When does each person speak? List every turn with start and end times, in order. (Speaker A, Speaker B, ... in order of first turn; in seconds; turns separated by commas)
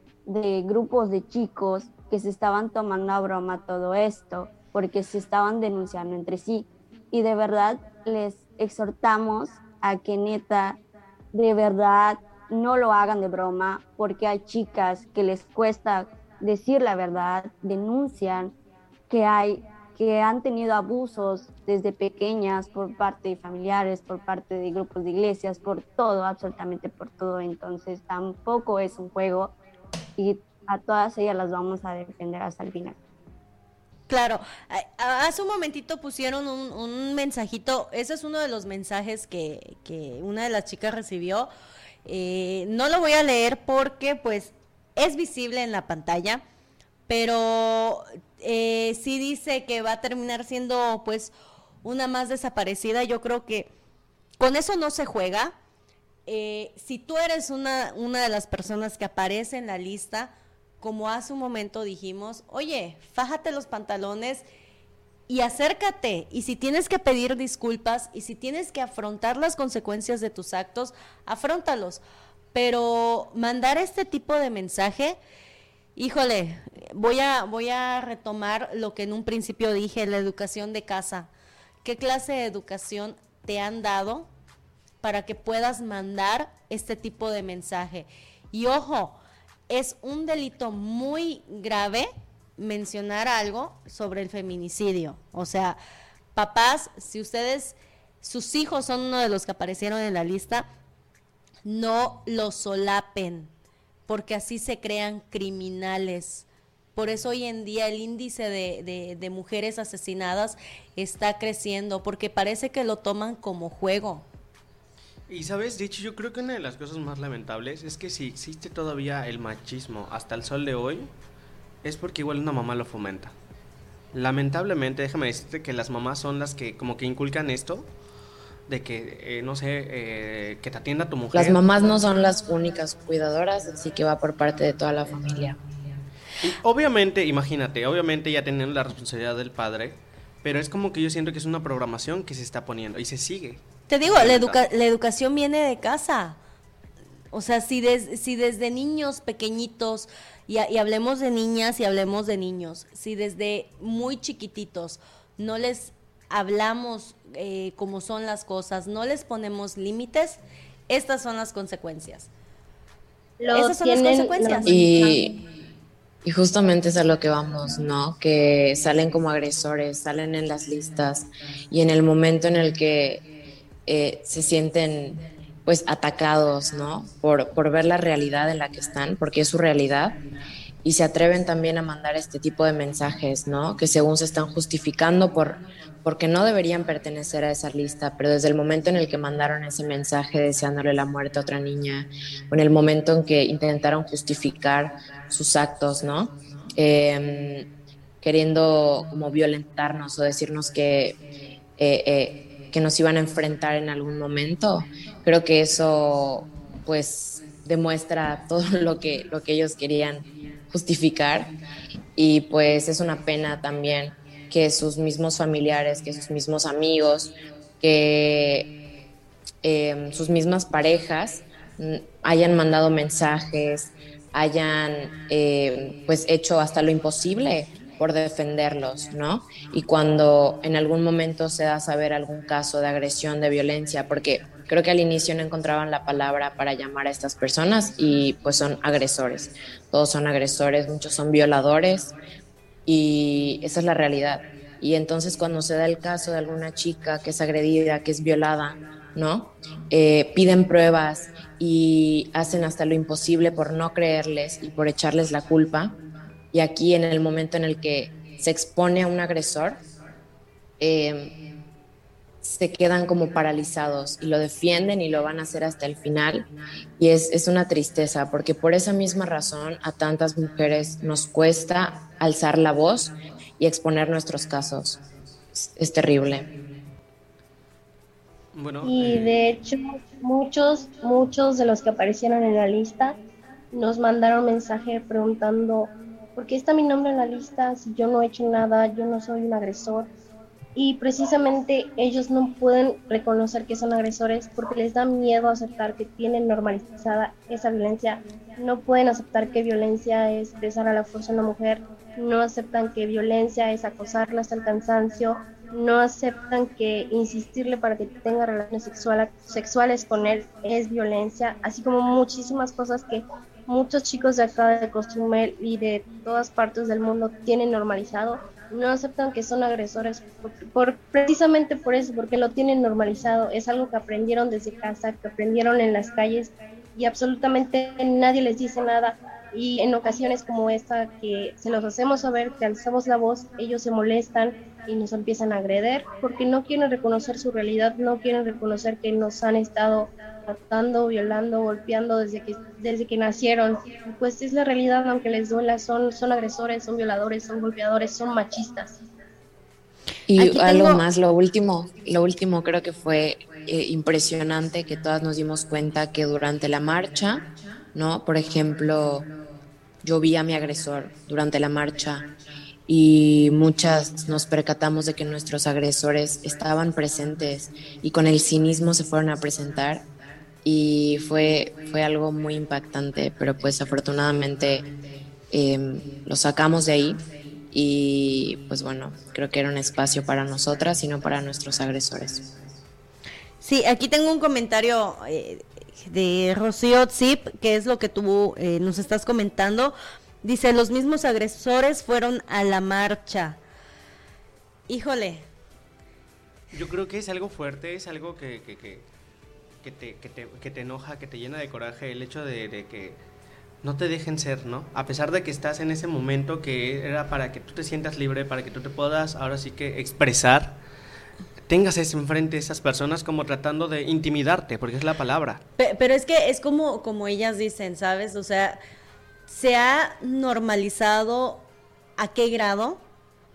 Speaker A: 0.2-10.8, Speaker A: 11.3-18.5, Speaker A: 19.1-29.5, Speaker A: 30.2-33.0, Speaker B: 34.1-41.5, Speaker B: 42.0-46.4, Speaker B: 47.1-51.3, Speaker B: 51.8-53.7, Speaker B: 54.4-55.5, Speaker B: 56.2-64.4, Speaker B: 65.3-72.0, Speaker B: 72.5-75.2, Speaker B: 76.0-81.3, Speaker B: 81.8-84.3, Speaker B: 85.0-95.8, Speaker B: 96.3-100.7, Speaker B: 101.6-103.5, Speaker B: 104.1-114.2, Speaker C: 115.3-121.1, Speaker C: 121.8-123.3, Speaker C: 124.1-127.9, Speaker C: 128.7-131.6, Speaker D: 131.3-135.6, Speaker C: 136.4-144.6, Speaker B: 143.9-146.4, Speaker B: 147.3-162.3, Speaker E: 163.4-165.2, Speaker B: 163.5-164.8, Speaker D: 164.7-165.4, Speaker D: 166.2-173.2, Speaker D: 173.8-180.2, Speaker D: 180.8-197.7, Speaker D: 198.2-201.2, Speaker D: 201.8-211.5, Speaker D: 212.2-218.7, Speaker D: 219.6-242.1, Speaker D: 242.8-256.0, Speaker D: 256.5-259.8, Speaker D: 260.8-261.3, Speaker D: 262.4-275.0, Speaker D: 275.5-276.5, Speaker C: 278.5-279.4, Speaker E: 278.8-283.2, Speaker E: 283.7-290.1, Speaker E: 290.7-348.9, Speaker D: 350.3-359.3, Speaker B: 350.4-351.0, Speaker D: 360.0-362.2, Speaker D: 362.9-370.1, Speaker D: 370.6-374.9, Speaker D: 375.5-382.5, Speaker B: 383.6-393.6, Speaker B: 394.9-395.4, Speaker C: 396.7-399.0, Speaker C: 399.8-403.2, Speaker C: 403.8-410.8, Speaker C: 411.7-415.6, Speaker B: 415.8-418.8, Speaker B: 419.5-421.7, Speaker B: 422.2-423.0